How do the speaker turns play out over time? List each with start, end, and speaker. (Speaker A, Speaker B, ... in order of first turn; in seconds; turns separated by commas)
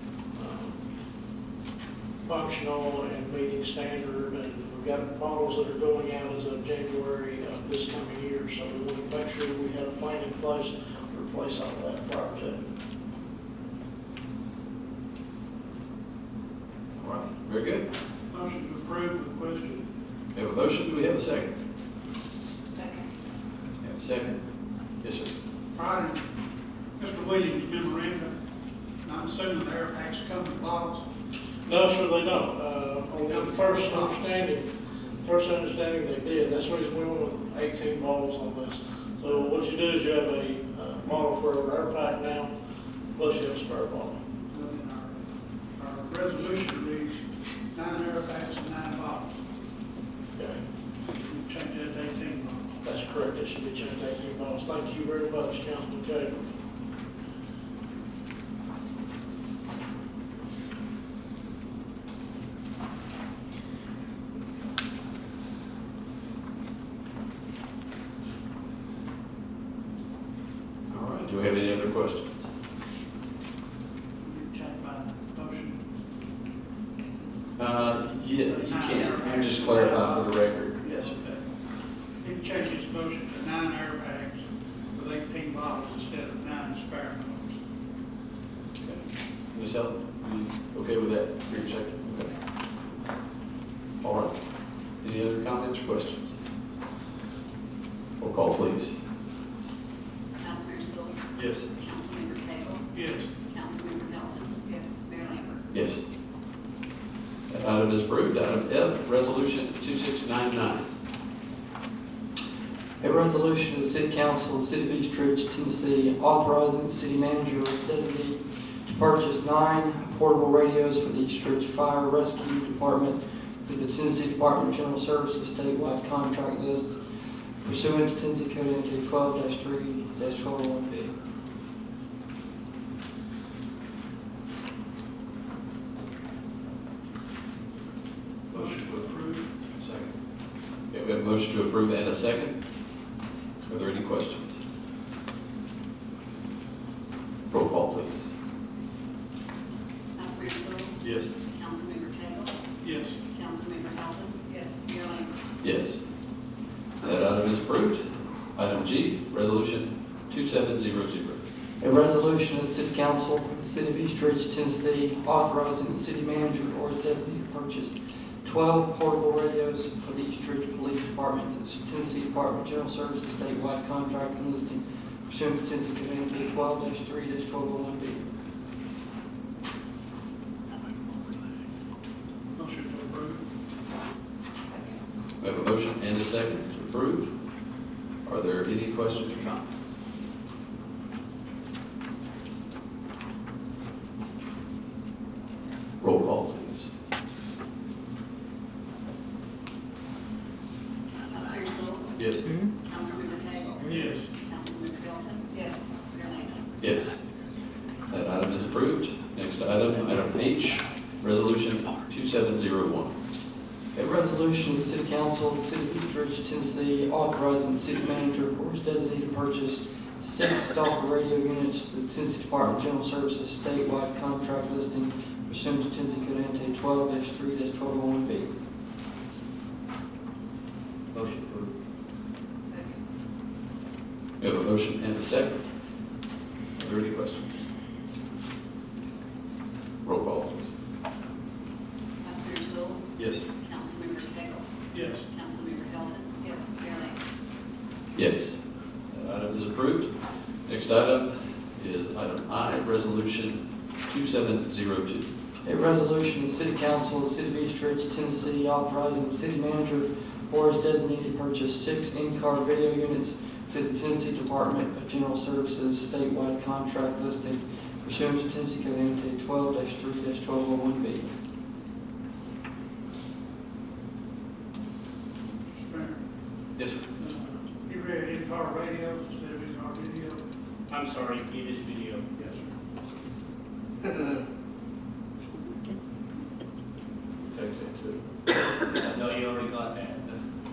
Speaker A: 0.3-0.8, Speaker A: 2.2-12.6, Speaker B: 17.0-17.9, Speaker C: 18.3-19.8, Speaker B: 20.3-21.5, Speaker B: 23.8-24.4, Speaker B: 25.0-25.3, Speaker C: 25.7-26.2, Speaker C: 27.0-28.4, Speaker C: 29.0-31.0, Speaker A: 31.6-42.5, Speaker C: 33.1-34.4, Speaker A: 43.1-44.2, Speaker C: 44.5-45.2, Speaker C: 45.8-47.2, Speaker C: 47.7-49.3, Speaker A: 50.4-50.6, Speaker C: 51.2-52.8, Speaker A: 52.8-56.4, Speaker B: 70.9-72.4, Speaker C: 74.2-75.8, Speaker B: 77.6-81.1, Speaker C: 78.5-81.5, Speaker C: 82.2-87.6, Speaker B: 89.5-92.3, Speaker B: 94.0-94.3, Speaker B: 95.0-96.3, Speaker B: 98.2-99.0, Speaker D: 100.4-101.2, Speaker B: 101.3-101.7, Speaker D: 101.8-102.8, Speaker C: 102.9-103.3, Speaker D: 103.5-105.7, Speaker B: 105.7-106.0, Speaker B: 107.5-110.9, Speaker E: 113.0-126.9, Speaker E: 127.6-131.1, Speaker B: 138.5-140.1, Speaker C: 138.5-139.3, Speaker B: 140.9-142.6, Speaker B: 143.6-144.6, Speaker B: 147.5-148.3, Speaker D: 150.2-152.6, Speaker B: 151.0-151.3, Speaker C: 152.8-153.2, Speaker D: 153.3-155.3, Speaker B: 155.6-156.0, Speaker B: 157.0-158.0, Speaker B: 158.6-161.4, Speaker E: 161.8-178.2, Speaker C: 182.6-183.4, Speaker B: 185.4-187.3, Speaker B: 188.2-189.8, Speaker B: 196.0-196.9, Speaker D: 201.3-206.8, Speaker B: 202.2-202.5, Speaker C: 203.8-204.2, Speaker B: 206.8-207.2, Speaker B: 208.1-213.1, Speaker E: 213.9-228.5, Speaker B: 231.1-231.7, Speaker B: 234.4-235.6, Speaker B: 236.8-237.5, Speaker B: 240.0-240.7, Speaker D: 242.2-243.1, Speaker B: 243.2-243.4, Speaker D: 243.6-244.7, Speaker C: 244.9-245.2, Speaker D: 245.3-247.2, Speaker B: 248.1-248.6, Speaker B: 249.1-250.1, Speaker B: 250.7-255.3, Speaker E: 255.6-271.3, Speaker C: 275.7-276.2, Speaker B: 276.8-277.0, Speaker C: 277.2-280.4, Speaker F: 280.9-282.2, Speaker C: 282.4-282.6, Speaker B: 287.6-288.1, Speaker F: 288.9-290.3